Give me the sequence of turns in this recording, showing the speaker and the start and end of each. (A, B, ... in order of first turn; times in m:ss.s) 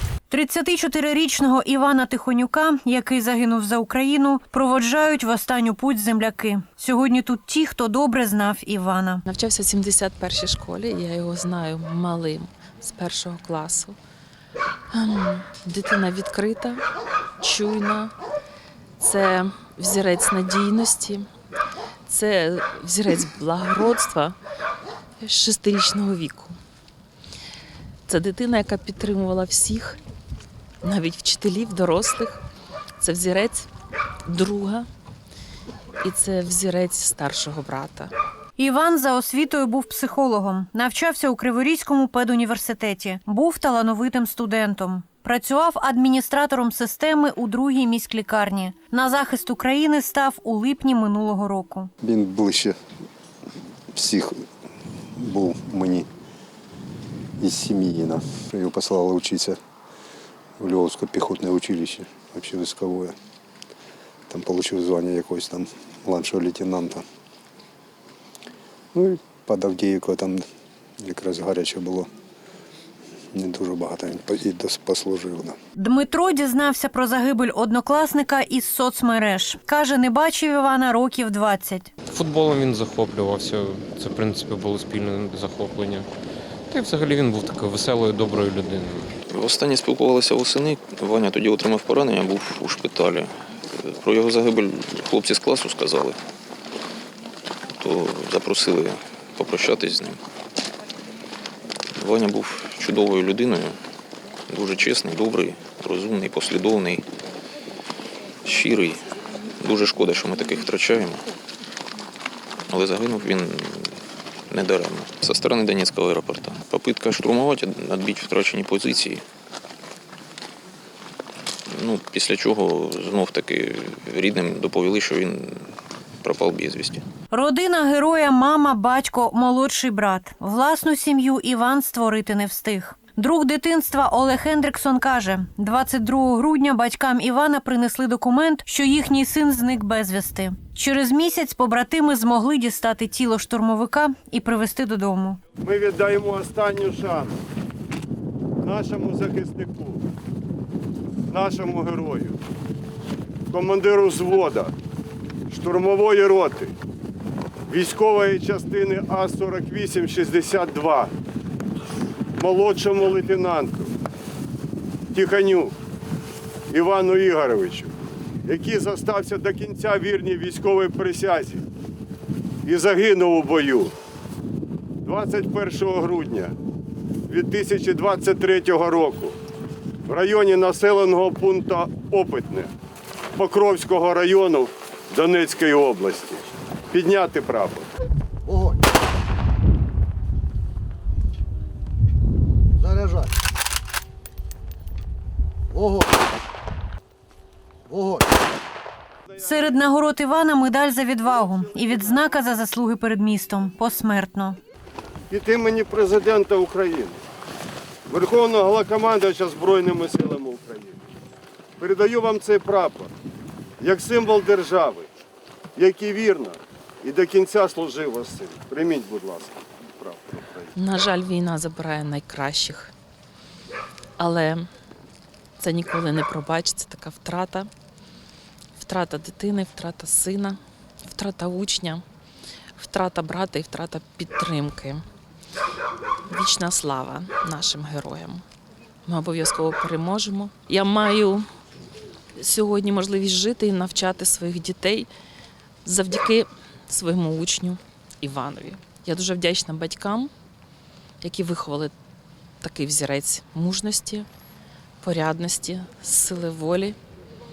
0:00.3-0:09.2 A
0:09.3-0:14.0 B
0:14.9-0:16.8 B
0:17.4-0:18.1 B
0:19.0-0:21.3 B
0:22.1-0:24.4 B
0:25.2-0:26.6 B
0:28.1-0:30.0 B
0:30.8-0:32.4 B
0:33.0-0:33.7 B
0:34.3-0:34.9 B
0:36.0-0:38.1 B
0:38.6-0:51.9 A
0:52.0-0:52.8 C
0:53.9-0:54.4 C
0:55.2-0:56.1 C
0:57.4-0:59.6 C
1:00.6-1:03.2 C
1:04.3-1:07.0 C
1:08.9-1:10.4 C
1:11.0-1:12.1 C
1:13.3-1:15.6 C
1:15.8-1:21.9 A
1:22.1-1:26.1 D
1:26.7-1:29.1 D
1:29.3-1:36.2 E
1:37.8-1:40.2 E
1:42.0-1:43.8 E
1:44.5-1:47.1 E
1:48.4-1:51.2 E
1:52.7-1:54.0 E
1:54.5-1:59.2 E
2:01.7-2:05.7 E
2:06.2-2:07.1 E
2:07.3-2:25.5 A
2:25.6-2:27.4 F
2:28.6-2:30.0 F
2:31.3-2:32.4 F
2:33.5-2:34.7 F
2:35.5-2:36.7 F
2:37.7-2:41.1 F
2:42.4-2:43.9 F
2:45.1-2:45.8 F
2:46.7-2:47.9 F
2:48.4-2:51.6 F
2:52.6-2:53.9 F
2:55.0-2:56.5 F
2:57.3-2:59.4 F
3:00.1-3:02.7 F
3:03.4-3:07.9 F
3:19.4-3:24.6 A
3:25.3-3:27.2 F
3:28.1-3:31.0 F
3:31.8-3:33.1 F
3:33.8-3:35.1 F
3:35.8-3:40.7 F
3:40.8-3:42.9 B
3:44.2-3:44.7 B
3:45.6-3:47.7 B
3:48.8-3:52.0 B
3:52.8-3:55.0 B
3:56.3-3:58.4 B
3:59.1-4:01.5 B
4:02.4-4:05.1 B
4:05.8-4:10.3 B
4:11.2-4:11.9 B
4:12.6-4:14.3 B
4:15.0-4:17.0 B